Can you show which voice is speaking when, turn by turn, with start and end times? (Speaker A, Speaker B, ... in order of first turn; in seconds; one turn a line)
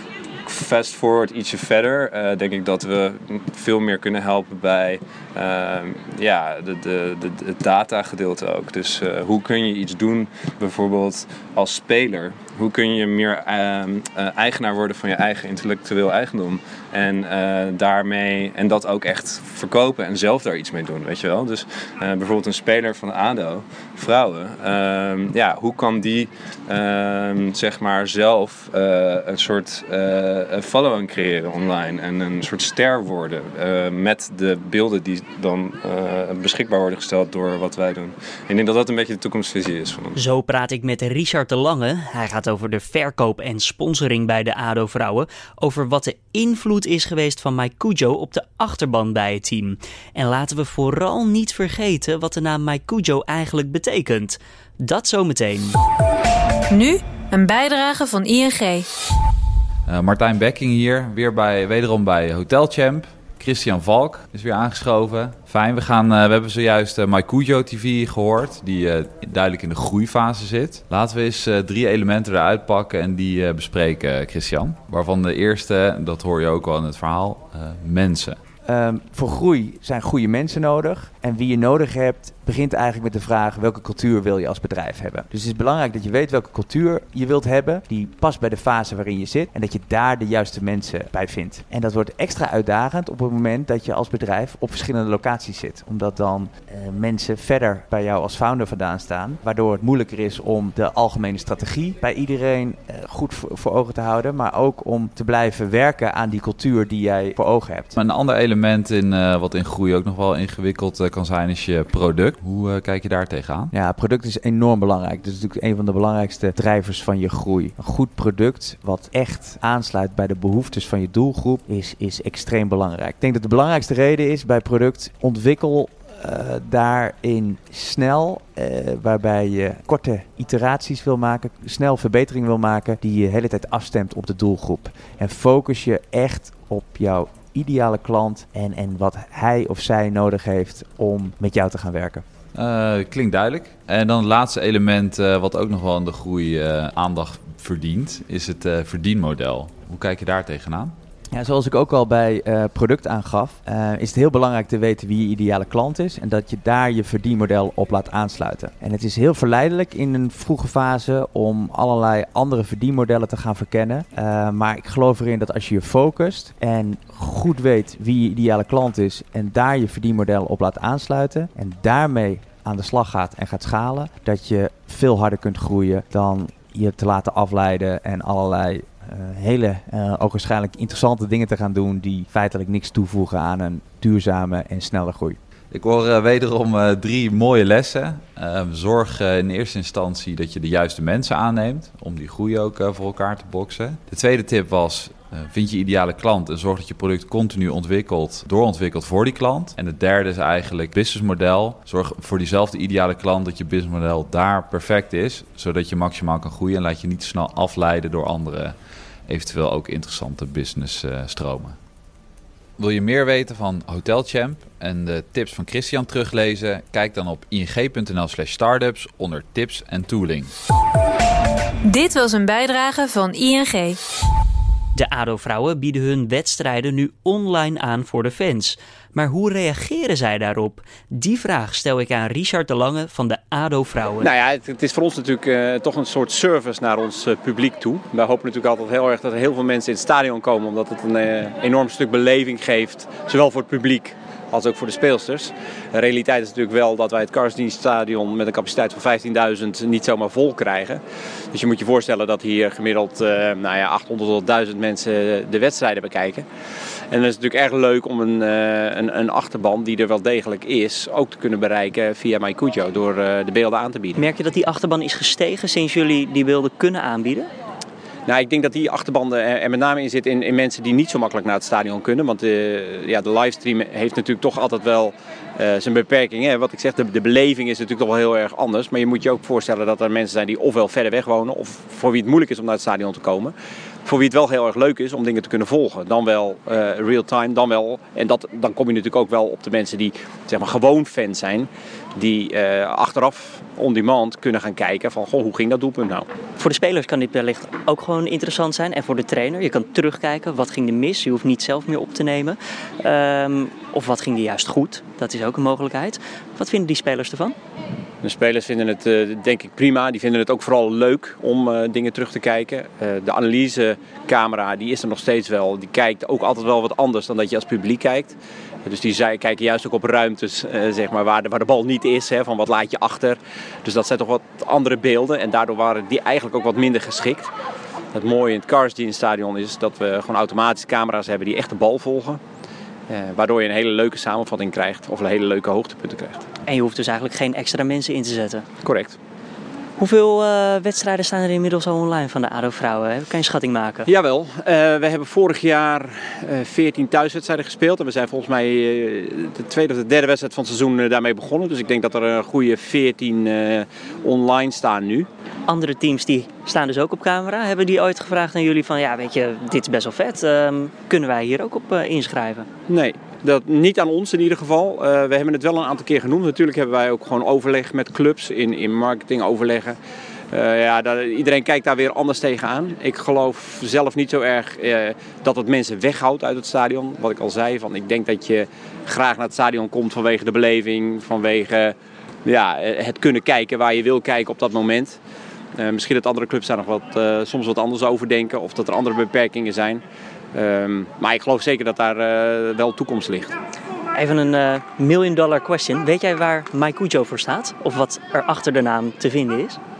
Speaker A: 0.4-40.2
Speaker B: 40.1-55.8
Speaker C: 56.7-58.9
Speaker D: 59.9-78.4
Speaker E: 78.6-107.9
Speaker D: 107.9-113.7
Speaker E: 113.7-142.2
Speaker D: 142.5-150.9
Speaker E: 151.3-185.4
Speaker D: 185.7-211.8
Speaker D: 212.8-220.5
Speaker C: 221.8-224.0
Speaker B: 224.9-234.3
Speaker F: 234.2-256.4
Speaker F: 257.1-264.2
Speaker B: 264.1-267.5
Speaker F: 268.2-283.5
Speaker F: 284.0-296.3
Speaker B: 296.6-307.6
Speaker F: 308.2-327.5
Speaker F: 328.1-332.4
Speaker F: 333.1-336.4
Speaker B: 336.6-338.7
Speaker F: 338.8-339.2
Speaker B: 340.0-344.1
Speaker F: 344.1-355.3
Speaker B: 355.7-362.7
Speaker F: 362.9-370.0
Speaker F: 370.5-385.2
Speaker F: 385.8-390.0
Speaker F: 390.5-393.5
Speaker B: 394.1-399.8